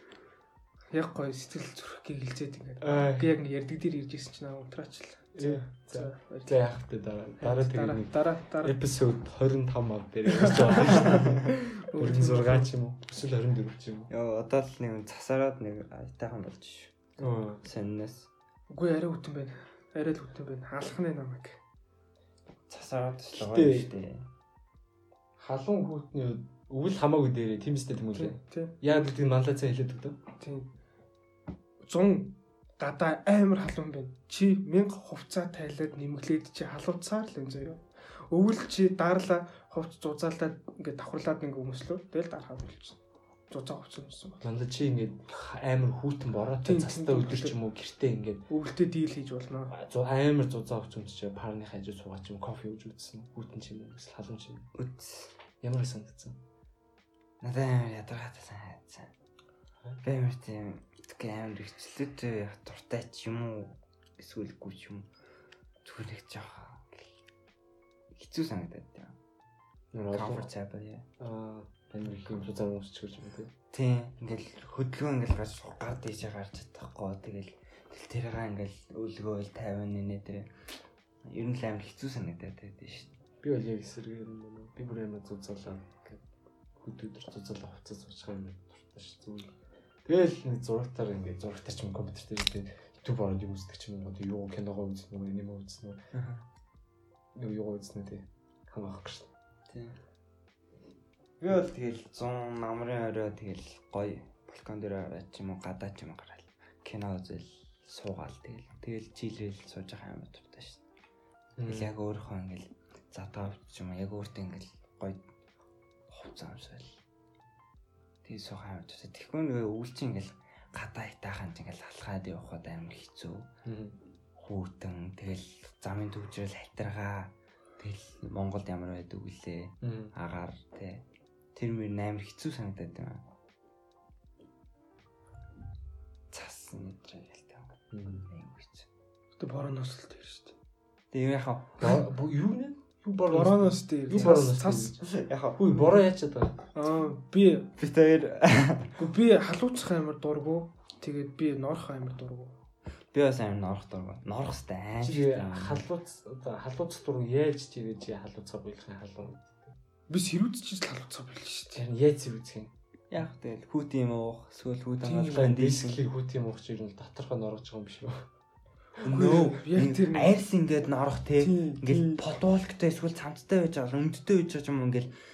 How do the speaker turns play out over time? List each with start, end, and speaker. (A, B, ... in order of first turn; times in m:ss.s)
0:00.9-0:06.6 A
0:02.8-0:03.3 B
0:05.4-0:14.1 B
0:07.4-0:08.8 A
0:10.3-0:12.7 A
0:11.0-0:11.3 C
0:14.1-0:18.3 C
0:17.2-0:17.6 B
0:18.7-0:21.6 A
0:22.7-0:24.3 C
0:23.3-0:23.9 B
0:25.4-0:30.2 B
0:28.2-0:28.8 A
0:30.4-0:30.7 A
0:31.8-0:44.5 A
0:44.4-0:48.4 B
0:46.6-0:47.6 A
0:48.5-0:49.8 A
0:49.7-0:54.7 B
0:54.8-0:55.3 C
0:55.6-0:56.4 B
0:57.4-0:59.1 C
1:00.0-1:05.1 C
1:05.8-1:07.0 C
1:08.2-1:09.2 C
1:09.9-1:10.5 B
1:10.1-1:11.1 C
1:11.2-1:13.5 B
1:13.7-1:20.5 C
1:21.2-1:23.1 C
1:23.4-1:26.2 B
1:26.8-1:29.5 B
1:30.0-1:36.0 B
1:36.1-1:36.4 C
1:37.4-1:39.3 B
1:39.7-1:40.0 C
1:41.4-1:50.8 C
1:51.6-1:51.9 B
1:51.6-1:55.2 C
1:56.1-1:57.0 C
1:58.2-2:03.5 C
2:03.6-2:04.0 B
2:04.4-2:11.0 C
2:09.8-2:10.1 B
2:11.6-2:13.2 C
2:16.3-2:17.8 C
2:17.9-2:18.3 B
2:18.3-2:18.9 C
2:19.4-2:20.5 A
2:21.1-2:22.0 C
2:21.8-2:25.0 B
2:23.3-2:25.0 A
2:25.0-2:25.6 C
2:25.6-2:26.6 B
2:26.8-2:27.7 A
2:27.8-2:29.0 C
2:29.0-2:32.6 A
2:33.1-2:35.8 C
2:35.0-2:39.8 B
2:40.1-2:41.8 A
2:41.8-2:42.7 B
2:43.1-2:46.0 C
2:45.0-2:45.5 A
2:45.2-2:48.3 B
2:49.0-2:50.4 A
2:49.0-2:55.2 C
2:51.4-2:52.2 A